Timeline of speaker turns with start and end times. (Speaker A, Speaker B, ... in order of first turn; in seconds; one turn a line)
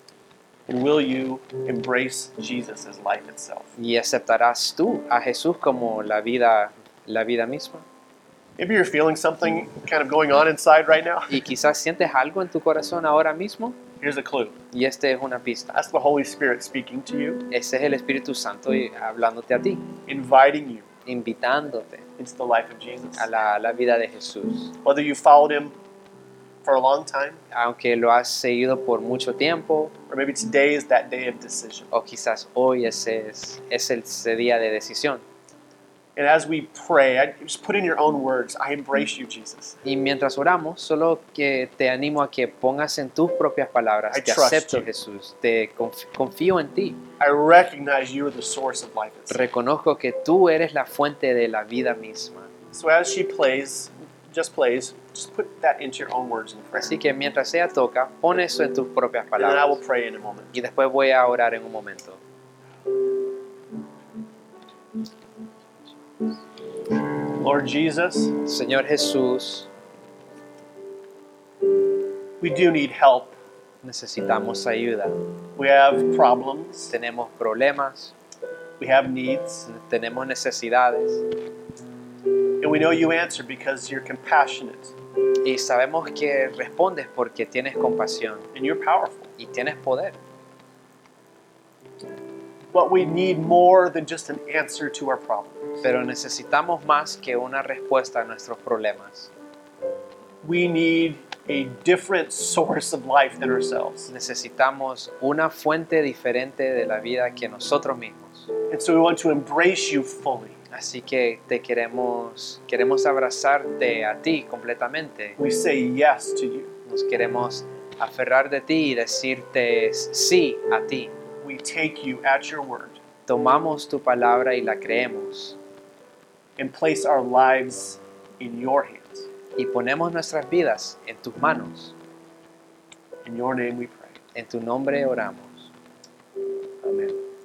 Speaker A: 0.7-3.7
Speaker B: 3.8-7.8
Speaker A: 8.6-11.3
Speaker B: 11.3-13.8
Speaker A: 14.0-14.6
Speaker B: 14.7-15.7
Speaker A: 15.7-17.5
Speaker B: 17.5-19.9
Speaker A: 20.1-20.9
Speaker B: 21.1-22.0
Speaker A: 22.2-23.3
Speaker B: 23.2-24.8
Speaker A: 24.8-25.7
Speaker A: 26.6-27.4
Speaker B: 27.5-29.9
Speaker A: 30.1-31.9
Speaker B: 31.9-35.2
Speaker A: 36.1-39.8
Speaker B: 39.8-47.0
Speaker A: 44.1-44.9
Speaker A: 47.2-49.4
Speaker B: 49.3-52.5
Speaker A: 52.7-56.9
Speaker B: 56.8-59.8
Speaker A: 59.4-60.5
Speaker B: 60.5-62.2
Speaker A: 67.3-68.4
Speaker B: 68.4-69.7
Speaker A: 72.4-73.4
Speaker B: 73.8-75.2
Speaker A: 75.5-76.9
Speaker B: 76.9-78.1
Speaker A: 78.8-79.7
Speaker B: 79.7-81.2
Speaker A: 82.6-84.9
Speaker B: 85.4-88.5
Speaker A: 88.5-89.3
Speaker B: 89.4-90.2
Speaker A: 92.7-95.8
Speaker B: 95.8-99.3
Speaker A: 100.4-104.1
Speaker B: 104.1-108.5
Speaker A: 108.7-110.5
Speaker B: 110.7-115.4
Speaker A: 115.4-116.7
Speaker B: 116.8-121.1
Speaker A: 121.4-123.0
Speaker B: 123.2-125.6
Speaker A: 126.6-129.3
Speaker B: 129.6-131.9
Speaker A: 133.2-134.1
Speaker B: 134.3-135.7
Speaker A: 136.8-137.2